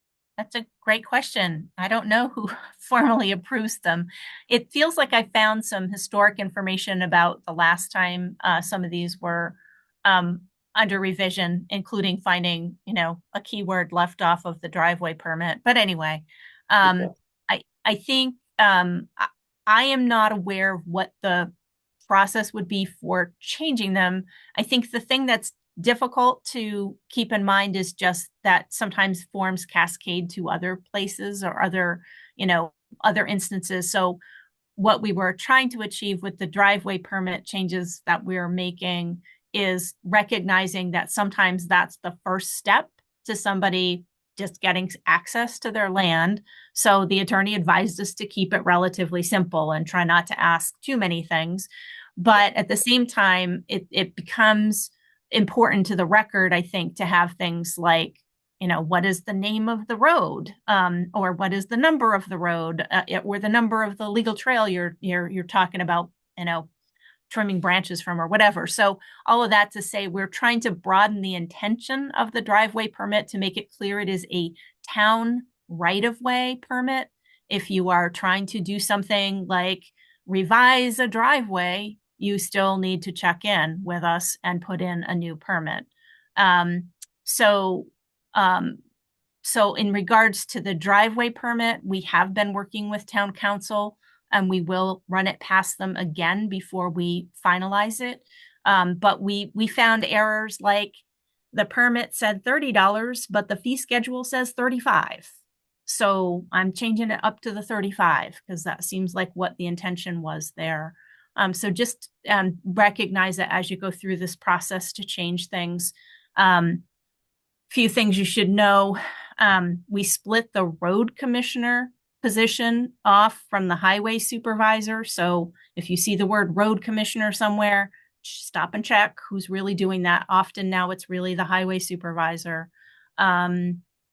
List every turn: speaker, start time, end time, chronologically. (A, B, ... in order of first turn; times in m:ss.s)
0:00.4-0:21.5 A
0:22.1-0:34.2 A
0:34.8-1:06.7 A
1:07.3-1:28.8 A
1:29.4-1:41.0 A
1:41.5-1:45.3 A
1:45.8-1:56.8 A
1:57.7-2:13.8 A